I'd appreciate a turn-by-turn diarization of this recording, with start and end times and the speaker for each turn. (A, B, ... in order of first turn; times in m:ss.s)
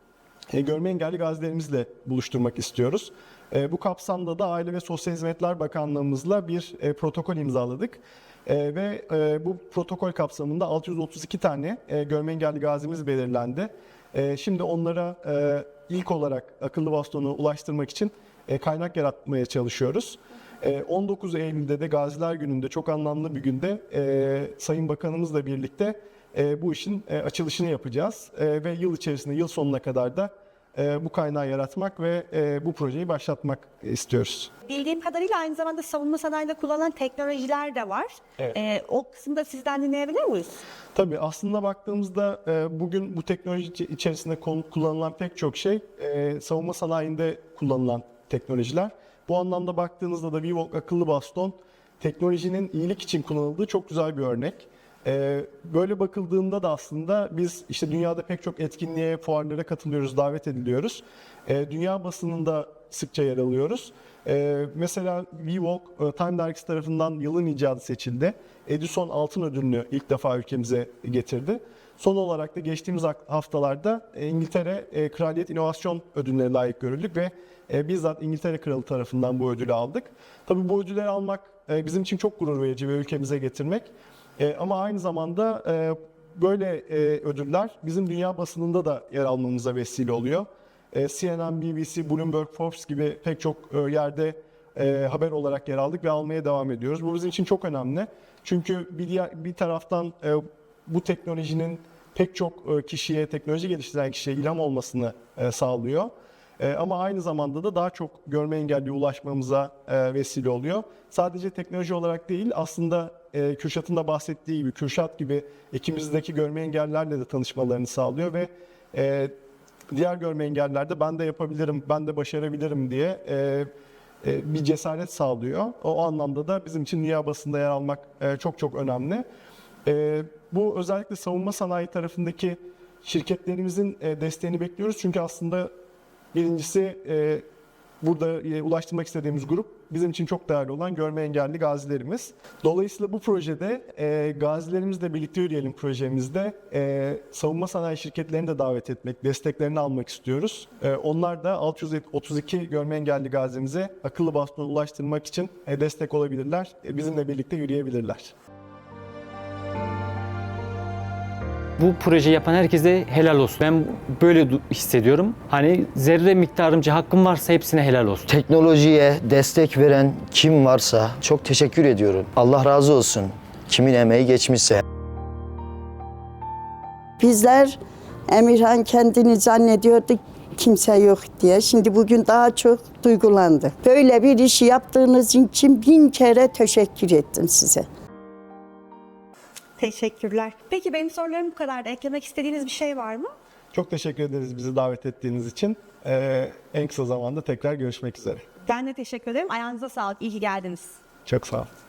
0:00.5-0:34.5 A
0:34.6-0:40.6 B
0:40.9-1:59.3 A
1:59.9-2:03.7 A
2:04.2-2:09.2 A
2:09.8-2:15.7 A
2:16.3-2:17.4 A
2:18.0-2:38.3 A
2:41.8-2:48.2 C
2:48.3-2:54.8 D
2:57.2-3:07.8 E
3:09.8-3:13.3 B
3:13.7-3:18.4 A
3:18.6-3:21.0 B
3:21.2-3:21.7 A